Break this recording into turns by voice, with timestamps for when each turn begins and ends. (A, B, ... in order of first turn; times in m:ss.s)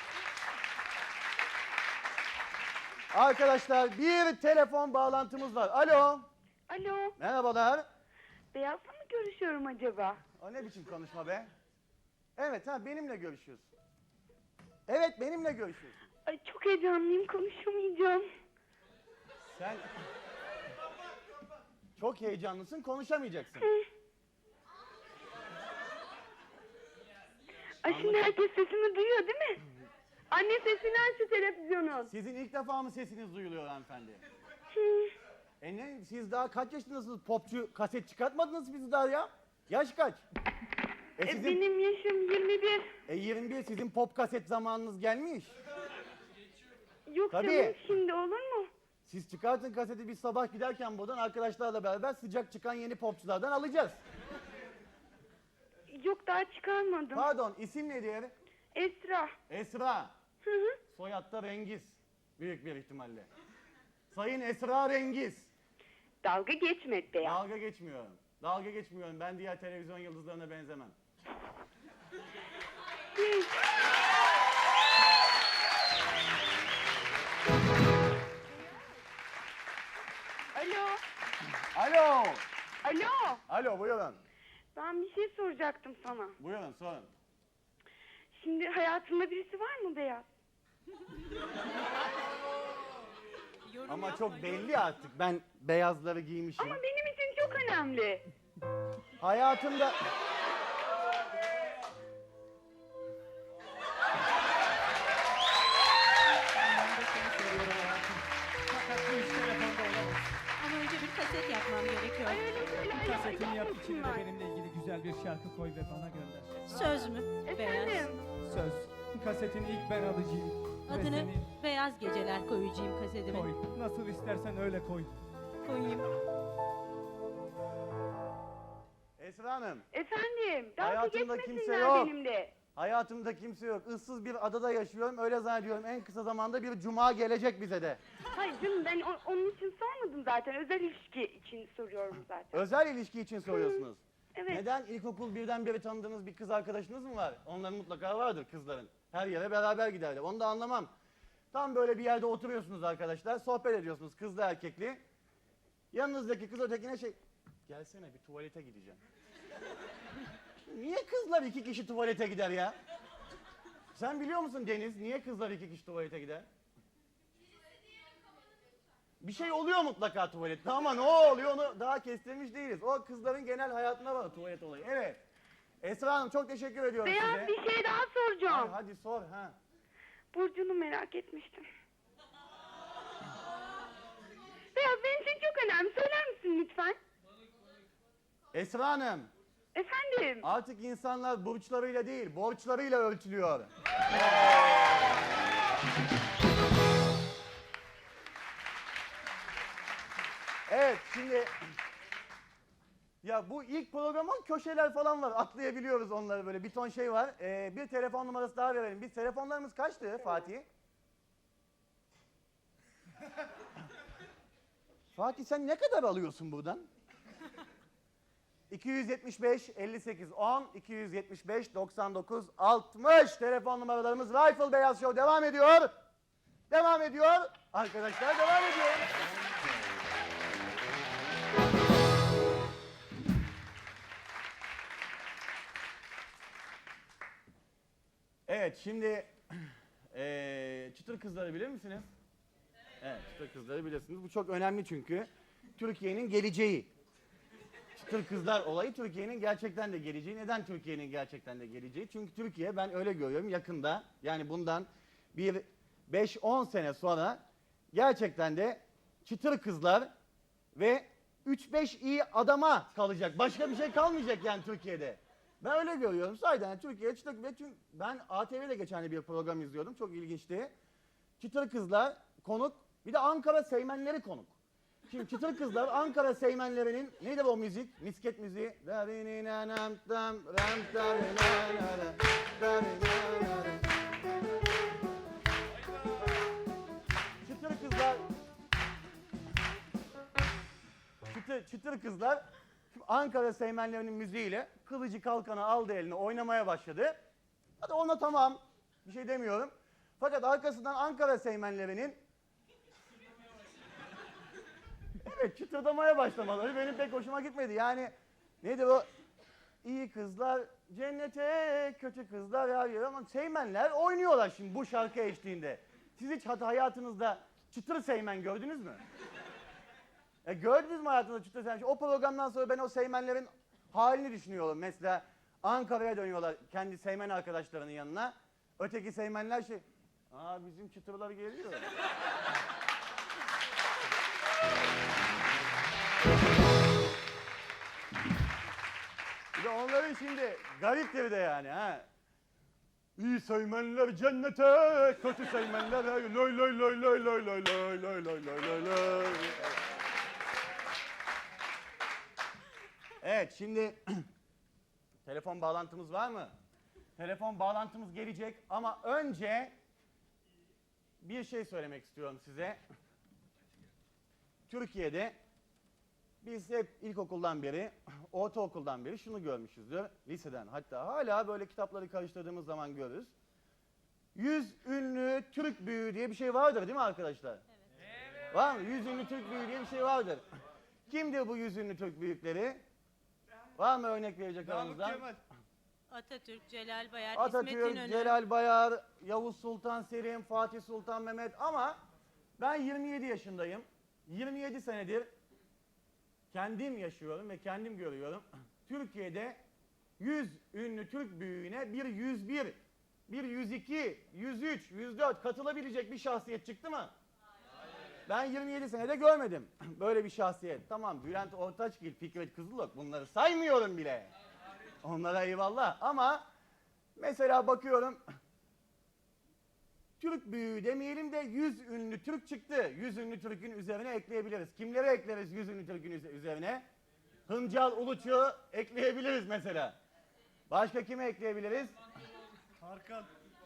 0:03.1-0:06.3 A
0:06.7-0:07.2 B
0:07.2-0:07.8 A
0:08.5-0:10.2 B
0:10.4-0:11.5 A
0:12.4-0:13.7 A
0:14.9-0:16.0 A
0:16.3-0:18.3 B
0:19.5-0:19.8 A
0:22.0-0:23.7 A
0:23.6-0:23.9 B
0:27.8-0:29.6 B
0:27.9-0:28.3 A
0:30.3-0:32.1 B
0:32.1-0:34.2 A
0:34.7-0:35.1 B
0:35.6-0:40.2 A
0:41.2-0:41.6 A
0:41.2-0:43.0 B
0:43.1-0:45.5 A
0:47.1-0:48.7 B
0:47.3-0:47.8 A
0:49.0-0:54.0 A
0:55.9-0:57.3 B
0:57.1-0:58.3 A
0:58.7-0:59.3 B
0:59.5-1:00.1 A
1:00.4-1:00.8 B
1:00.9-1:03.3 A
1:04.1-1:05.5 A
1:06.2-1:07.4 B
1:07.2-1:10.9 A
1:13.1-1:13.6 B
1:20.6-1:21.0 B
1:21.8-1:22.4 A
1:22.8-1:23.4 B
1:23.5-1:24.2 A
1:24.8-1:26.4 B
1:26.4-1:27.1 A
1:28.3-1:30.3 B
1:33.6-1:34.8 C
1:33.9-1:36.8 A
1:36.6-1:38.2 B
1:39.2-1:40.0 A
1:46.8-1:50.4 D
1:50.6-1:52.5 C
1:52.2-1:54.2 B
1:52.9-1:56.7 D
1:56.6-1:58.2 C
1:57.4-1:58.2 B
1:58.3-2:01.4 D
2:00.9-2:03.6 C
2:03.3-2:05.1 D
2:05.6-2:06.1 C
2:09.2-2:09.9 A
2:09.9-2:12.6 B
2:10.8-2:12.1 A
2:12.7-2:18.0 A
2:18.3-2:22.6 B
2:22.5-2:30.9 A
2:23.5-2:23.8 B
2:24.4-2:24.6 B
2:31.5-2:35.0 A
2:35.9-2:39.0 A
2:40.7-2:42.8 A
2:43.9-2:46.5 A
2:49.2-2:55.2 A
2:55.8-2:57.6 A
2:57.0-2:58.8 B
2:58.4-2:59.6 A
3:00.3-3:01.6 B
3:04.7-3:07.0 B
3:08.5-3:09.3 A
3:09.8-3:10.4 B
3:10.4-3:13.7 A
3:20.7-3:21.5 A
3:23.2-3:30.7 A
3:35.2-3:36.9 A
3:38.7-3:45.9 A
3:46.7-3:49.2 A
3:58.5-4:02.1 A
4:03.0-4:06.9 A
4:08.0-4:17.4 A
4:17.9-4:20.1 A
4:20.8-4:30.7 A
4:31.4-4:34.6 A
4:35.1-4:43.9 A
4:47.4-4:48.2 A
4:51.3-4:57.2 A
4:57.8-5:02.2 A
5:05.2-5:09.1 A
5:09.8-5:19.0 A
5:20.4-5:31.9 A
5:39.6-5:42.1 A
5:43.2-5:49.7 A
5:53.2-5:54.2 A
5:55.2-5:56.5 A
5:57.2-5:59.7 A
6:01.2-6:02.8 A
6:04.7-6:05.4 A
6:06.4-6:13.3 A
6:14.3-6:17.6 A
6:18.5-6:20.4 A
6:21.1-6:22.8 A
6:23.8-6:25.4 A
6:26.1-6:28.4 C
6:27.3-6:32.0 A
6:32.6-6:35.3 A
6:36.5-6:39.6 A
6:40.2-6:47.1 A
6:48.3-6:54.3 A
6:55.0-6:56.4 A
6:57.2-6:58.2 A
7:00.2-7:06.8 A
7:07.5-7:10.0 A
7:10.7-7:11.9 A
7:12.9-7:13.2 D